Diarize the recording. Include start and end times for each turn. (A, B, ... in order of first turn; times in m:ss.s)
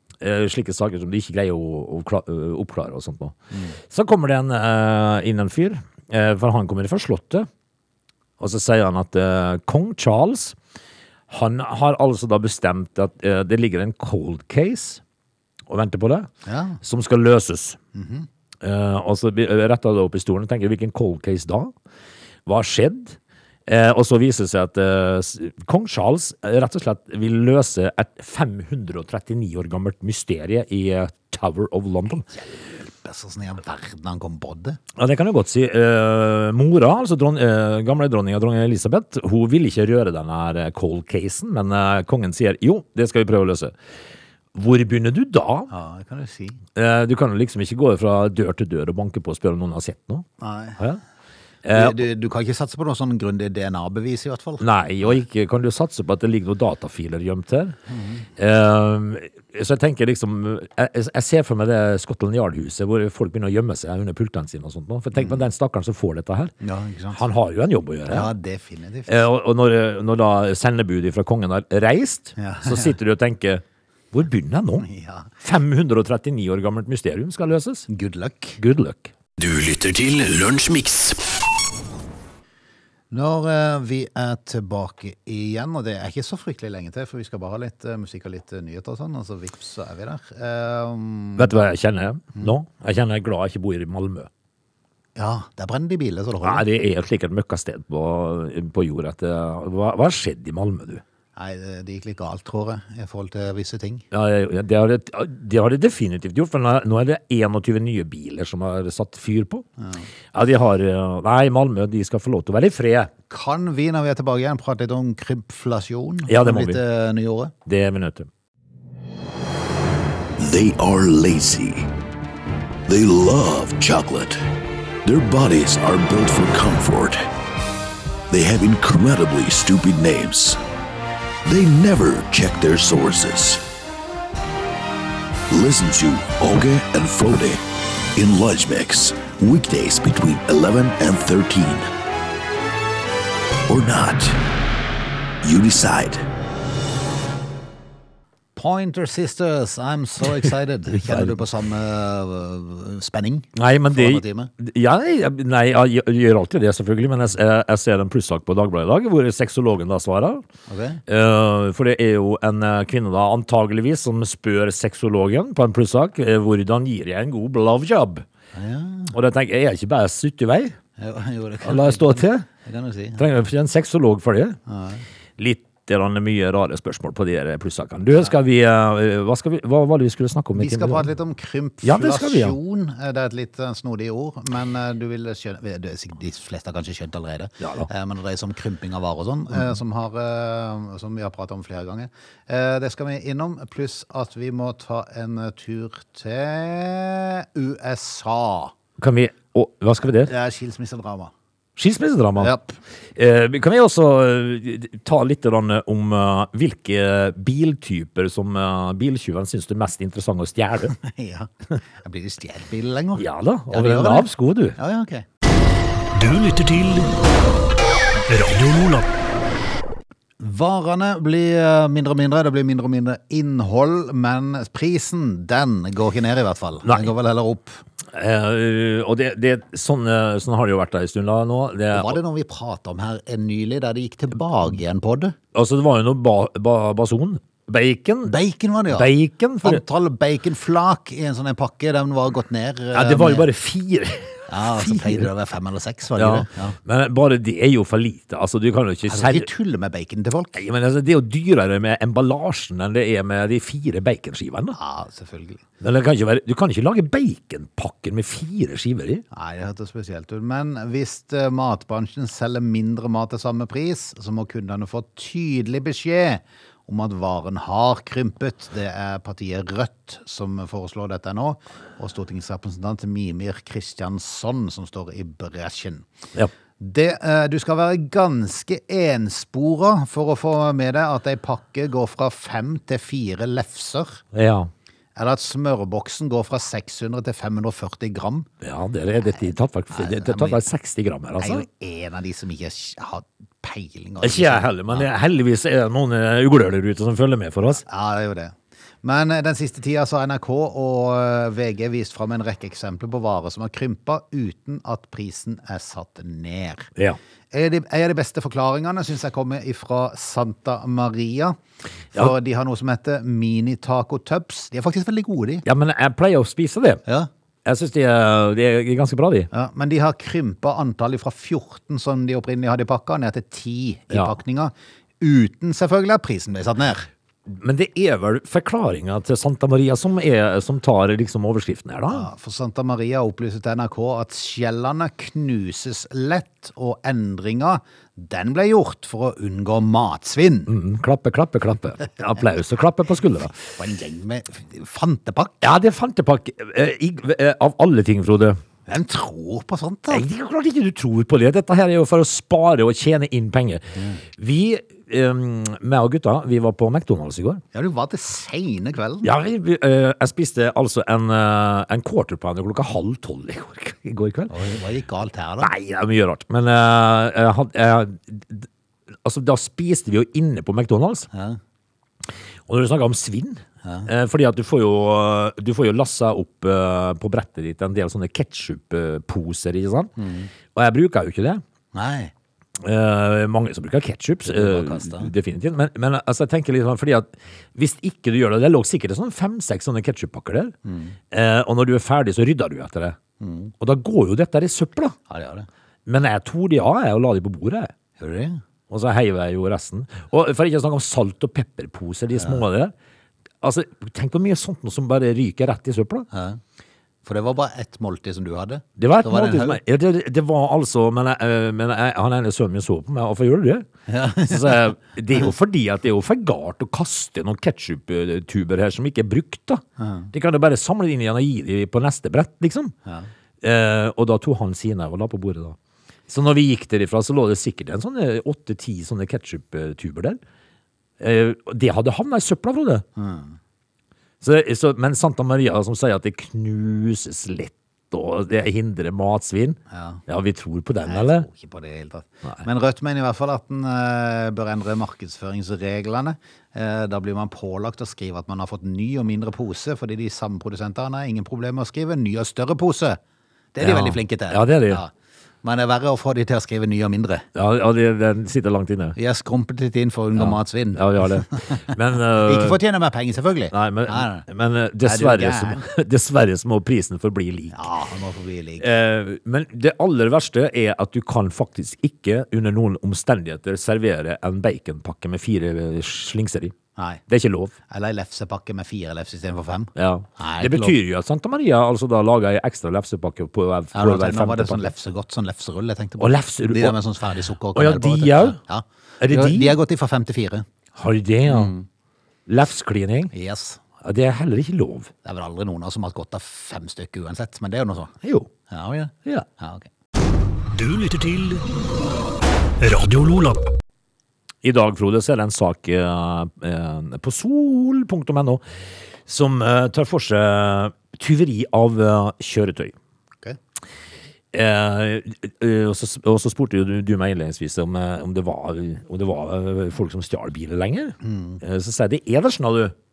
0:00.2-0:07.5 A
0:08.4-0:10.6 A
0:11.3-0:15.0 A
0:15.7-0:16.3 A
0:16.4-0:16.8 B
0:16.8-0:17.8 A
0:17.9-0:18.3 B
0:18.6-0:21.7 A
0:22.4-0:32.3 A
0:32.3-0:34.8 B
0:35.0-0:43.7 A
0:44.5-0:45.7 A
0:45.7-0:46.6 B
0:46.8-0:50.2 A
0:50.4-0:50.8 B
0:51.6-0:52.0 A
0:51.7-0:55.2 B
0:54.6-0:57.8 A
0:57.9-0:58.3 B
0:58.4-1:06.5 A
1:05.1-1:05.4 B
1:06.6-1:07.2 B
1:07.1-1:08.3 A
1:08.1-1:09.2 B
1:09.1-1:14.9 A
1:12.4-1:13.0 B
1:14.8-1:15.3 B
1:15.4-1:17.9 A
1:17.9-1:18.6 B
1:18.6-1:19.1 A
1:19.4-1:21.3 C
1:23.1-1:31.5 B
1:31.4-1:34.3 A
1:35.2-1:36.6 B
1:36.4-1:41.0 A
1:41.4-1:44.0 B
1:44.1-1:49.6 A
1:49.8-1:50.1 B
1:50.3-1:53.1 A
1:53.3-1:57.5 B
1:56.2-1:56.8 A
1:57.6-1:58.3 A
2:00.4-2:01.9 D
2:02.9-2:04.4 D
2:05.0-2:07.2 D
2:08.3-2:10.6 D
2:11.4-2:13.6 D
2:15.5-2:17.6 D
2:18.2-2:21.9 D
2:23.7-2:24.4 D
2:25.4-2:26.2 D
2:28.6-2:34.5 B
2:31.0-2:31.4 A
2:33.5-2:40.4 A
2:40.7-2:41.0 B
2:41.1-2:48.2 A
2:48.5-2:49.1 B
2:49.1-2:50.8 A
2:51.0-2:53.2 B
2:51.6-2:52.4 A
2:53.2-2:54.6 A
2:54.7-2:55.0 B
2:55.4-3:01.1 A
3:00.6-3:18.8 B
3:01.8-3:02.6 A
3:07.6-3:07.9 A
3:19.0-3:20.3 A
3:20.2-3:21.3 B
3:21.8-3:22.5 A
3:22.4-3:22.8 B
3:23.2-3:30.9 A
3:31.0-3:35.2 B
3:33.2-3:34.8 A
3:36.1-3:37.1 C
3:38.3-3:39.1 C
3:40.4-3:47.8 B
3:48.1-3:52.2 A
3:51.9-3:55.3 B
3:55.5-3:58.3 A
3:58.2-4:03.5 B
3:58.9-3:59.8 A
4:02.9-4:05.3 A
4:04.5-4:06.8 B
4:06.2-4:09.5 A
4:09.1-4:10.6 B
4:10.5-4:14.8 A
4:14.8-4:15.6 B
4:15.8-4:19.2 A
4:19.3-4:36.1 B
4:36.8-4:44.2 B
4:44.3-4:44.7 A
4:45.2-4:48.5 B
4:48.6-4:51.6 A
4:49.9-4:50.6 B
4:51.4-4:55.1 B
4:54.2-4:57.8 A
4:57.8-5:06.9 B
5:07.5-5:11.6 B
5:12.1-5:15.6 B
5:15.6-5:17.0 A
5:17.6-5:19.5 A
5:19.5-5:27.1 B
5:27.5-5:32.3 A
5:32.1-5:40.7 B
5:40.7-5:43.5 A
5:43.6-5:45.6 B
5:45.6-5:48.6 A
5:48.9-5:50.2 B
5:50.1-5:57.6 A
5:54.0-5:54.2 B
5:57.7-5:59.3 B
5:59.2-6:04.5 A
6:04.5-6:05.7 B
6:05.6-6:08.7 A
6:09.2-6:11.3 A
6:11.3-6:11.6 B
6:12.7-6:20.1 A
6:20.2-6:20.5 B
6:20.6-6:21.6 A
6:21.9-6:22.3 B
6:22.8-6:30.7 A
6:24.4-6:25.3 B
6:30.8-6:31.2 B
6:31.3-6:33.2 A
6:33.4-6:33.7 B
6:33.8-6:35.2 A
6:35.3-6:35.7 B
6:36.0-6:37.9 A
6:38.2-6:38.6 B
6:38.9-6:42.9 A
6:42.4-6:42.6 B
6:43.6-6:46.3 A
6:46.3-6:46.6 B
6:47.2-6:49.8 B
6:49.0-6:53.9 A
6:54.1-6:55.5 B
6:54.4-7:02.9 A
7:00.0-7:00.3 B
7:03.6-7:05.8 A
7:06.3-7:10.4 A
7:11.2-7:13.0 A
7:13.2-7:13.6 B
7:14.4-7:21.5 A
7:19.9-7:20.2 B
7:21.0-7:33.2 B
7:33.7-7:35.1 B
7:33.8-7:35.0 A
7:35.6-7:37.5 B
7:37.5-7:39.2 A
7:39.2-7:44.5 B
7:40.4-7:42.8 A
7:43.7-7:47.9 A
7:45.0-7:45.8 B
7:47.7-7:48.9 B
7:48.8-7:56.8 A
7:57.0-7:57.2 B
7:57.3-7:57.8 A
7:57.9-8:01.0 B
8:00.0-8:04.9 A
8:03.9-8:10.6 B
8:06.2-8:07.0 A
8:07.7-8:08.6 A
8:09.2-8:09.8 A
8:11.0-8:11.7 A
8:11.5-8:11.9 B
8:12.5-8:13.3 A
8:13.3-8:13.8 B
8:14.0-8:15.1 A
8:15.2-8:18.1 B
8:18.2-8:18.5 A
8:18.7-8:19.9 B
8:20.7-8:21.7 C
8:22.8-8:23.6 C
8:24.6-8:28.6 A
8:29.2-8:32.9 A
8:34.5-8:43.0 A
8:41.2-8:41.6 B